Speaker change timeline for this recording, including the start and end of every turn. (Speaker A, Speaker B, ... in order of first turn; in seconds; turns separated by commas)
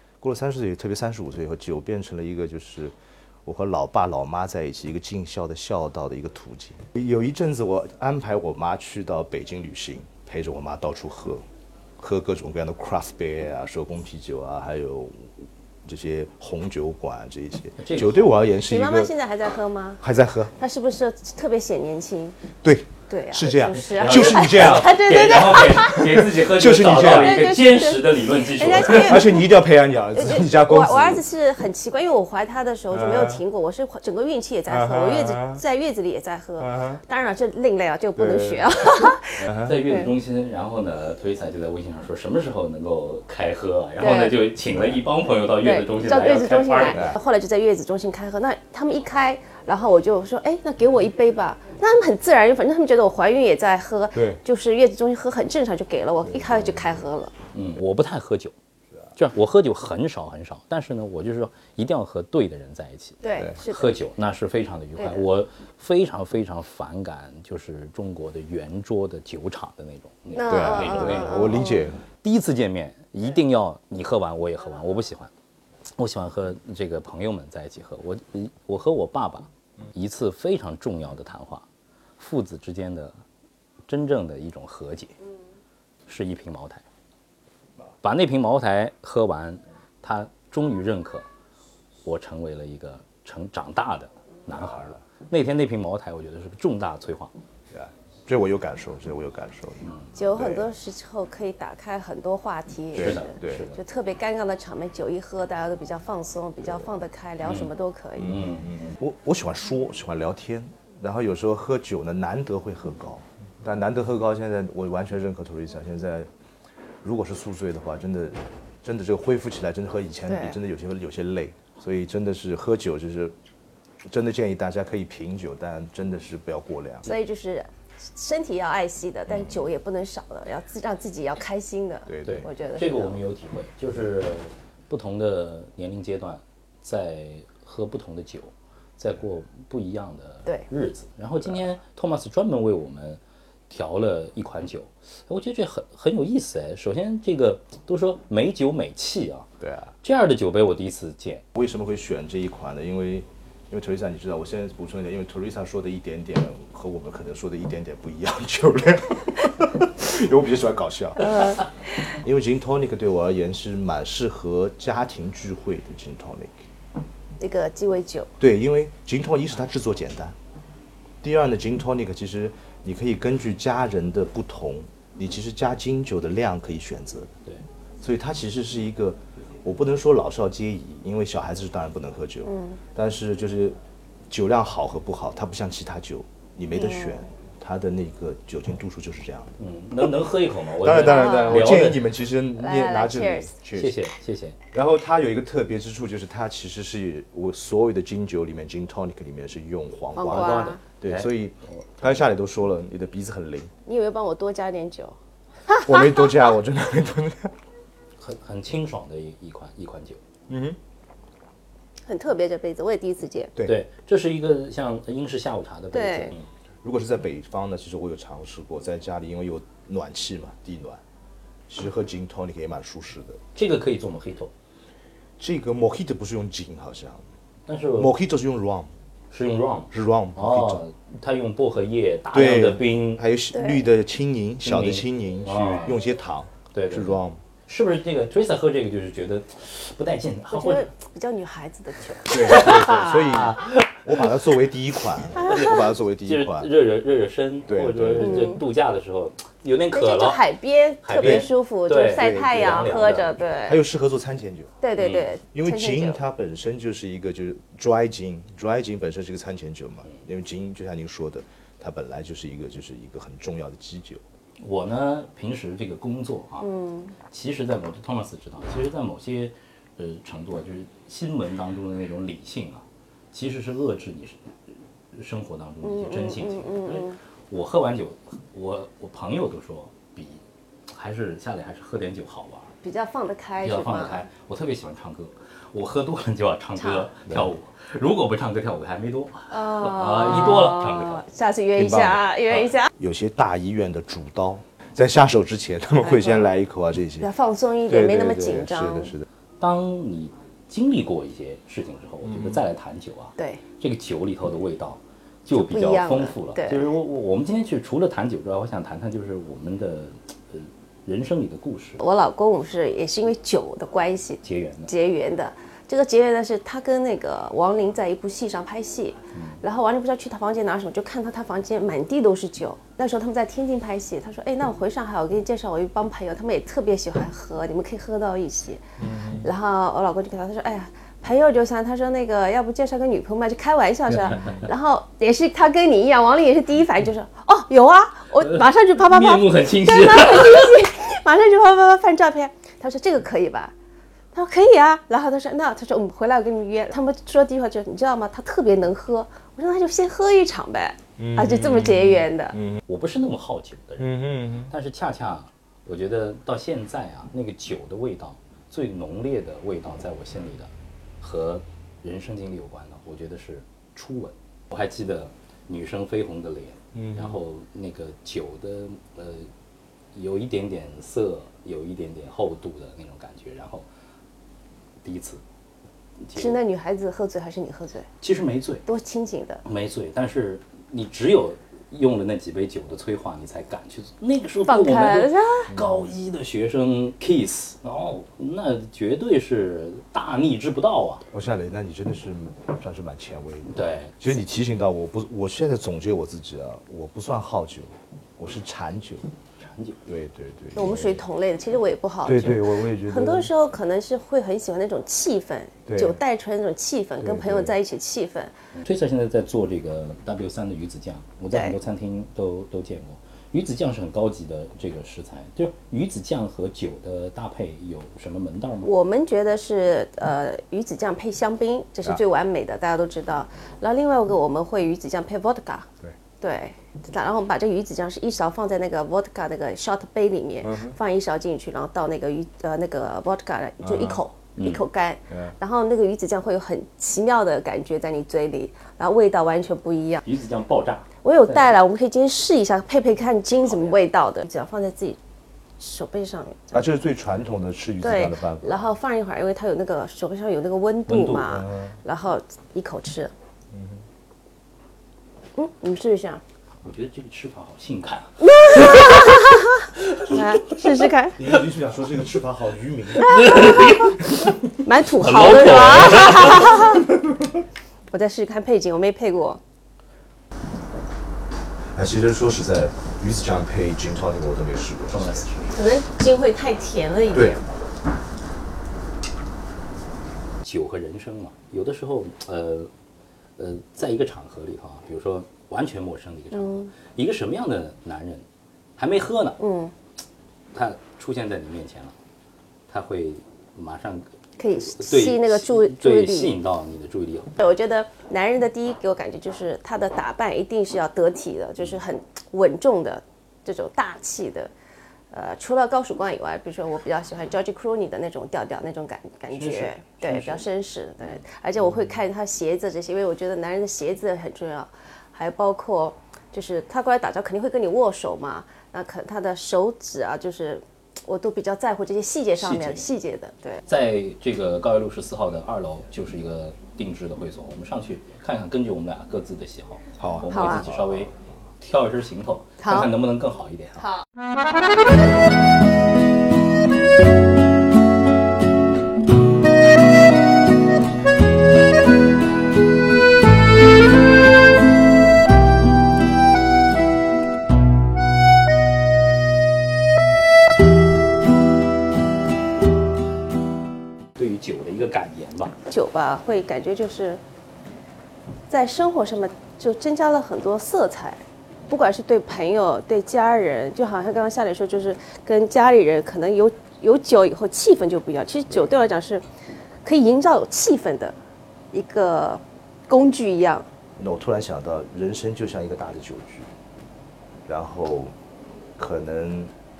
Speaker A: 0.2-11.4, Speaker A: 12.0-19.1, Speaker B: 17.8-18.3, Speaker C: 18.6-20.0, Speaker A: 20.0-20.5, Speaker C: 20.6-22.4, Speaker A: 22.6-25.0, Speaker C: 23.1-26.1, Speaker B: 23.8-29.4, Speaker A: 25.8-27.4, Speaker C: 26.9-29.5, Speaker A: 28.6-31.2, Speaker C: 30.1-40.1, Speaker A: 32.9-33.4, Speaker A: 34.7-35.6, Speaker A: 36.6-37.0, Speaker A: 38.1-38.7, Speaker B: 39.4-47.1, Speaker C: 44.0-44.4, Speaker C: 45.6-57.3, Speaker A: 46.9-47.2, Speaker A: 54.1-54.4, Speaker A: 56.3-56.8, Speaker B: 57.5-58.5, Speaker B: 59.1-71.7, Speaker C: 63.2-64.0, Speaker C: 70.3-71.9, Speaker A: 70.5-72.0, Speaker B: 72.2-75.3, Speaker B: 75.9-81.7, Speaker B: 82.2-83.2, Speaker B: 83.9-85.2, Speaker B: 86.1-86.8, Speaker B: 88.0-91.2, Speaker B: 92.0-97.3, Speaker A: 94.5-95.0, Speaker A: 97.7-100.7, Speaker C: 100.1-108.4, Speaker A: 102.9-103.7, Speaker B: 103.0-103.8, Speaker B: 107.4-108.9, Speaker A: 108.2-116.3, Speaker A: 117.0-123.3, Speaker C: 120.3-120.6, Speaker A: 124.0-127.1, Speaker C: 127.0-133.2, Speaker A: 132.1-132.5, Speaker B: 132.2-149.5, Speaker A: 149.6-149.9, Speaker B: 150.0-151.4, Speaker A: 151.5-166.5, Speaker C: 161.2-161.6, Speaker C: 167.4-168.3, Speaker A: 168.4-170.3, Speaker A: 171.2-177.3, Speaker A: 178.0-183.8, Speaker C: 182.4-182.8, Speaker A: 184.3-189.5, Speaker C: 186.7-187.2, Speaker B: 189.6-192.0, Speaker A: 190.8-193.9, Speaker C: 191.0-191.8, Speaker C: 192.6-193.5, Speaker B: 193.7-194.6, Speaker A: 194.7-203.7, Speaker C: 200.2-200.8, Speaker B: 200.2-202.2, Speaker C: 203.8-205.2, Speaker A: 205.7-207.5, Speaker B: 208.2-210.2, Speaker A: 210.5-210.8, Speaker C: 212.1-213.5, Speaker B: 213.6-216.5, Speaker C: 215.9-216.3, Speaker A: 216.8-221.0, Speaker A: 221.7-223.4, Speaker B: 223.5-224.5, Speaker A: 225.4-227.2, Speaker B: 227.7-228.1, Speaker A: 228.0-228.9, Speaker B: 229.3-233.2, Speaker A: 229.9-230.8, Speaker A: 232.3-237.4, Speaker C: 233.5-233.8, Speaker B: 234.6-236.0, Speaker B: 236.7-240.9, Speaker C: 240.5-242.9, Speaker A: 242.3-246.7, Speaker B: 242.3-244.3, Speaker B: 245.1-250.4, Speaker C: 245.5-245.8, Speaker A: 247.7-248.5, Speaker C: 248.2-248.6, Speaker C: 249.9-253.8, Speaker B: 251.0-253.3, Speaker A: 251.2-251.5, Speaker A: 252.2-254.7, Speaker C: 254.8-256.2, Speaker B: 255.0-255.3, Speaker A: 255.5-264.2, Speaker B: 264.6-266.7, Speaker C: 266.6-267.1, Speaker B: 267.2-274.5, Speaker B: 275.1-282.7, Speaker C: 275.8-277.2, Speaker C: 282.8-284.2, Speaker B: 283.6-291.2, Speaker C: 286.8-287.1, Speaker C: 289.5-292.9, Speaker A: 291.8-292.2, Speaker A: 293.0-297.3, Speaker C: 296.0-296.5, Speaker C: 297.2-299.1, Speaker A: 297.9-299.2, Speaker B: 299.6-312.0, Speaker A: 302.2-302.6, Speaker C: 303.4-303.6, Speaker C: 305.5-306.9, Speaker C: 312.0-343.7, Speaker B: 314.4-314.9, Speaker B: 319.3-319.6, Speaker B: 334.4-334.6, Speaker B: 338.4-340.8, Speaker C: 344.3-352.6, Speaker A: 351.2-352.8, Speaker B: 352.9-369.5, Speaker A: 354.0-354.7, Speaker A: 366.9-367.4, Speaker B: 370.1-373.9, Speaker B: 375.0-375.4, Speaker B: 376.2-376.6, Speaker C: 376.3-378.1, Speaker B: 378.2-378.8, Speaker C: 378.9-379.6, Speaker B: 379.6-391.2, Speaker C: 384.6-385.7, Speaker A: 391.3-399.3, Speaker B: 393.7-394.1, Speaker B: 399.6-400.0, Speaker A: 400.1-401.2, Speaker C: 400.7-408.5, Speaker A: 402.2-403.5, Speaker A: 405.9-406.2, Speaker A: 407.2-407.7, Speaker B: 408.8-418.9, Speaker C: 411.5-411.8, Speaker C: 418.8-425.9, Speaker C: 426.4-440.2, Speaker A: 430.6-430.9, Speaker A: 433.8-434.2, Speaker B: 434.6-434.8, Speaker B: 440.2-441.7, Speaker C: 441.2-445.2, Speaker C: 445.8-446.9, Speaker A: 446.7-448.9, Speaker C: 448.0-453.3, Speaker B: 451.1-451.4, Speaker A: 451.4-452.0, Speaker A: 453.7-454.0, Speaker C: 455.6-456.4, Speaker B: 456.8-460.8, Speaker C: 458.4-461.4, Speaker A: 461.4-463.6, Speaker B: 463.1-464.5, Speaker C: 463.4-464.0, Speaker C: 464.8-467.1, Speaker B: 465.0-467.0, Speaker C: 468.1-469.6, Speaker A: 471.9-475.5, Speaker B: 475.1-475.8, Speaker C: 475.7-477.6, Speaker A: 477.3-477.6, Speaker B: 480.6-482.9, Speaker B: 483.6-488.4, Speaker C: 486.5-486.9, Speaker B: 489.0-489.6, Speaker C: 489.6-489.9, Speaker B: 490.7-492.1, Speaker B: 492.9-497.5, Speaker C: 494.6-496.6, Speaker C: 497.6-504.7, Speaker C: 505.3-523.8, Speaker B: 509.5-510.6, Speaker B: 522.6-523.1, Speaker B: 523.9-534.1, Speaker A: 530.2-531.0, Speaker C: 530.5-530.9, Speaker C: 532.8-533.1, Speaker B: 554.4-555.7, Speaker C: 555.9-557.4, Speaker C: 558.7-569.4, Speaker C: 570.0-571.3, Speaker C: 571.9-573.9, Speaker A: 574.2-576.7, Speaker A: 577.6-578.3, Speaker A: 579.0-579.7